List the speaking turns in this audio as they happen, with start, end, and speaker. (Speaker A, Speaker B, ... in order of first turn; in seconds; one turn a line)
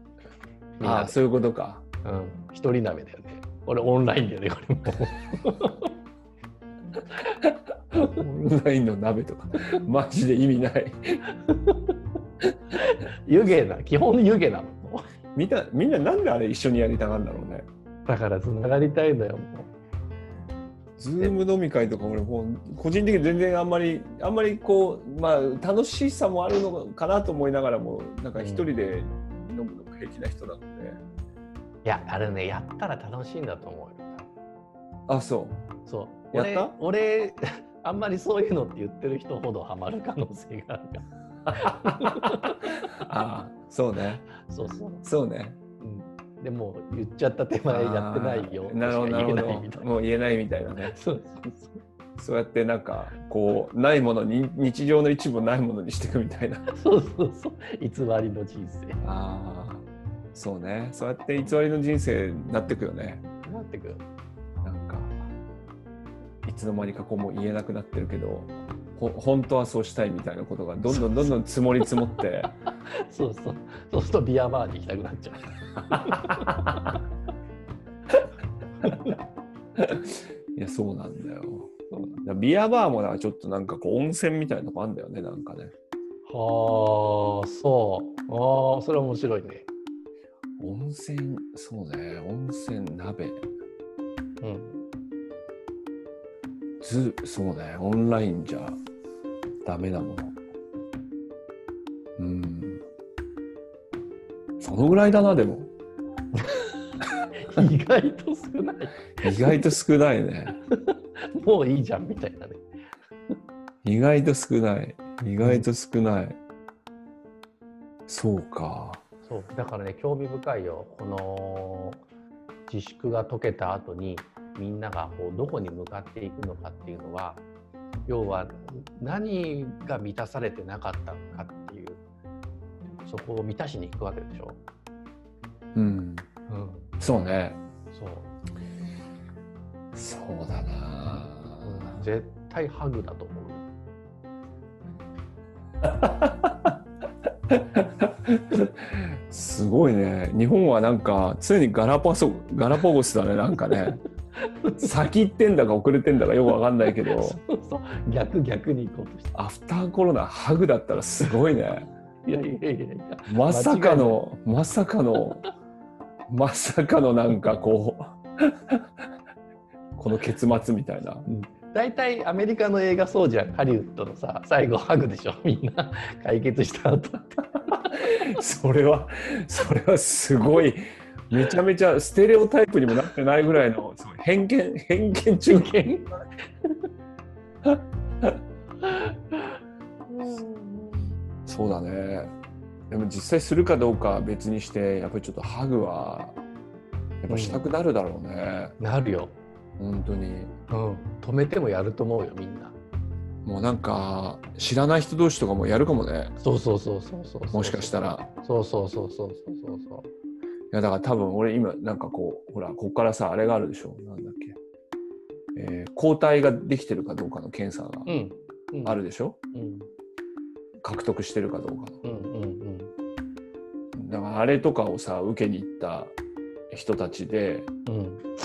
Speaker A: 0.8-1.2
Speaker B: 0.8-1.8
Speaker A: 2.0-5.9
Speaker B: 7.4-11.2
Speaker A: 8.0-8.5
Speaker A: 11.3-12.0
Speaker A: 12.8-15.0
Speaker B: 15.3-17.7
Speaker A: 18.1-19.7
Speaker B: 21.0-31.0
Speaker A: 28.4-28.7
Speaker A: 31.9-34.3
Speaker B: 35.1-35.6
Speaker A: 35.9-42.9
Speaker B: 36.3-36.7
Speaker B: 41.5-44.3
Speaker A: 44.4-45.0
Speaker B: 45.0-45.6
Speaker A: 45.8-49.9
Speaker B: 47.7-51.0
Speaker A: 50.9-51.8
Speaker B: 52.2-56.6
Speaker A: 56.7-59.0
Speaker B: 59.0-63.2
Speaker A: 63.4-64.0
Speaker B: 64.6-65.1
Speaker B: 66.5-72.5
Speaker A: 72.9-76.9
Speaker B: 76.1-76.5
Speaker A: 78.8-79.2
Speaker B: 79.8-81.7
Speaker A: 81.9-82.2
Speaker B: 82.2-85.7
Speaker A: 86.3-89.7
Speaker B: 90.6-93.4
Speaker A: 94.4-94.8
Speaker B: 96.8-98.8
Speaker B: 99.7-100.3
Speaker B: 102.2-102.8
Speaker B: 104.6-105.7
Speaker A: 106.4-106.7
Speaker A: 107.4-109.7
Speaker B: 109.2-110.6
Speaker A: 110.7-112.6
Speaker B: 113.8-116.4
Speaker B: 118.1-119.0
Speaker A: 119.3-122.0
Speaker A: 122.7-127.4
Speaker A: 128.1-132.0
Speaker A: 133.1-134.6
Speaker B: 135.8-136.3
Speaker A: 136.5-136.9
Speaker B: 137.0-137.6
Speaker A: 137.9-138.3
Speaker B: 139.9-142.0
Speaker A: 141.6-143.7
Speaker B: 145.8-146.7
Speaker B: 147.5-154.0
Speaker A: 154.4-154.9
Speaker B: 154.8-157.4
Speaker A: 157.0-159.3
Speaker B: 159.3-161.9
Speaker A: 162.3-164.2
Speaker B: 163.3-165.4
Speaker B: 166.3-168.8
Speaker B: 170.0-171.3
Speaker A: 171.3-178.2
Speaker B: 177.9-185.8
Speaker A: 185.5-186.9
Speaker B: 187.7-188.4
Speaker A: 188.8-191.1
Speaker B: 191.5-192.3
Speaker B: 192.9-196.4
Speaker B: 197.2-198.8
Speaker A: 197.3-197.6
Speaker A: 198.8-199.4
Speaker B: 199.8-200.5
Speaker A: 200.7-202.8
Speaker B: 203.4-206.3
Speaker A: 206.4-210.1
Speaker B: 207.5-208.3
Speaker B: 210.7-214.6
Speaker B: 215.6-218.1
Speaker A: 218.1-219.0
Speaker B: 218.8-219.4
Speaker A: 219.5-219.9
Speaker B: 220.8-222.0
Speaker A: 222.0-222.9
Speaker B: 223.9-226.2
Speaker B: 226.7-227.7
Speaker A: 227.9-228.3